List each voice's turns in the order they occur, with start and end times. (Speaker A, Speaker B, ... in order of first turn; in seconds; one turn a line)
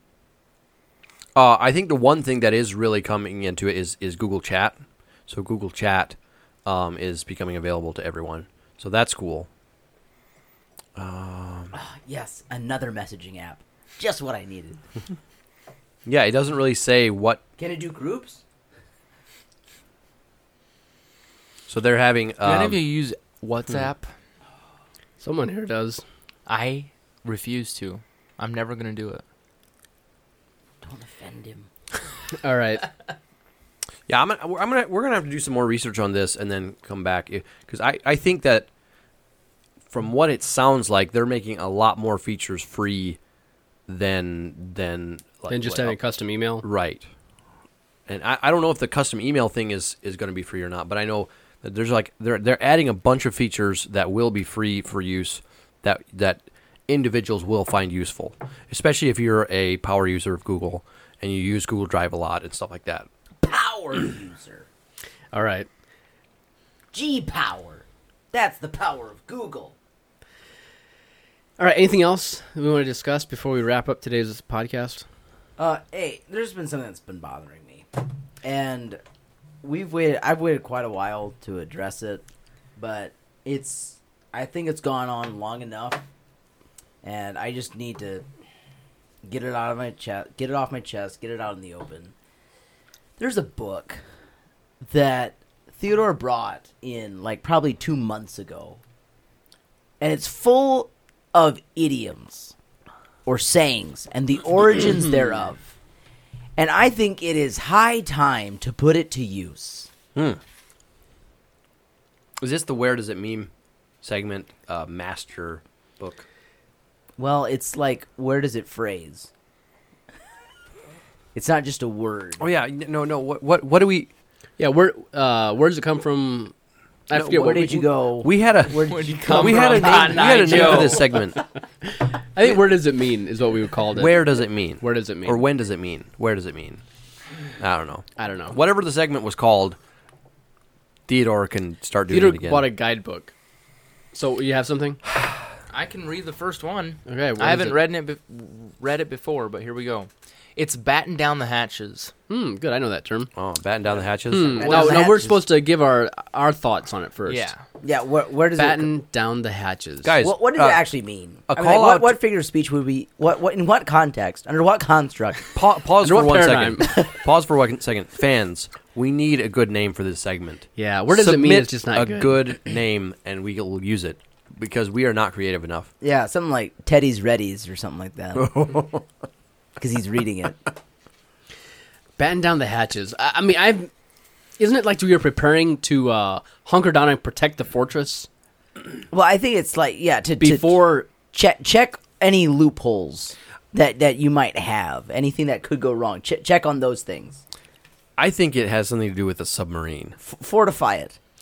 Speaker A: 1.3-9.5
Speaker A: 10.9-11.7
Speaker B: 11.7-14.8
Speaker A: 16.1-17.4
Speaker B: 17.6-18.4
Speaker A: 21.7-22.8
Speaker C: 22.4-24.1
Speaker D: 25.2-26.0
Speaker C: 26.5-29.2
Speaker B: 30.8-31.7
Speaker D: 32.4-32.9
Speaker A: 34.1-38.7
Speaker A: 39.9-43.2
Speaker A: 43.9-46.0
Speaker D: 45.5-46.6
Speaker A: 46.6-47.1
Speaker A: 48.1-63.1
Speaker B: 63.4-64.7
Speaker D: 65.3-65.7
Speaker B: 66.9-69.8
Speaker D: 71.6-75.0
Speaker B: 75.6-77.9
Speaker B: 78.4-79.0
Speaker B: 79.6-82.2
Speaker B: 82.8-86.0
Speaker B: 87.0-88.2
Speaker B: 89.2-92.1
Speaker B: 93.2-94.0
Speaker B: 94.8-98.8
Speaker B: 100.0-102.5
Speaker B: 103.2-105.7
Speaker B: 106.6-109.9
Speaker A: 110.1-110.4
Speaker A: 112.4-113.5
Speaker A: 114.0-116.2
Speaker B: 117.2-119.3
Speaker B: 121.3-122.4
Speaker A: 122.4-124.1
Speaker D: 124.6-126.5
Speaker D: 127.1-127.9
Speaker A: 127.1-127.6
Speaker B: 127.3-130.3
Speaker A: 128.2-131.4
Speaker C: 128.9-131.0
Speaker D: 130.3-130.9
Speaker D: 131.8-135.4
Speaker A: 133.9-136.8
Speaker A: 137.6-139.8
Speaker D: 138.2-138.6
Speaker A: 141.1-142.7
Speaker D: 142.1-143.3
Speaker D: 144.1-145.0
Speaker C: 145.7-152.1
Speaker D: 147.1-147.8
Speaker D: 152.3-153.3
Speaker A: 153.3-155.0
Speaker D: 154.3-157.5
Speaker B: 154.6-155.4
Speaker C: 157.3-157.6
Speaker B: 157.8-158.9
Speaker D: 158.6-160.2
Speaker A: 160.0-160.8
Speaker B: 160.2-165.5
Speaker A: 161.5-162.2
Speaker A: 165.5-175.9
Speaker D: 166.0-167.0
Speaker D: 170.8-172.4
Speaker B: 176.0-179.0
Speaker A: 178.4-178.8
Speaker B: 179.8-180.7
Speaker D: 182.2-183.9
Speaker D: 184.6-188.3
Speaker B: 189.1-197.4
Speaker D: 190.4-191.0
Speaker A: 198.2-200.2
Speaker B: 200.2-201.2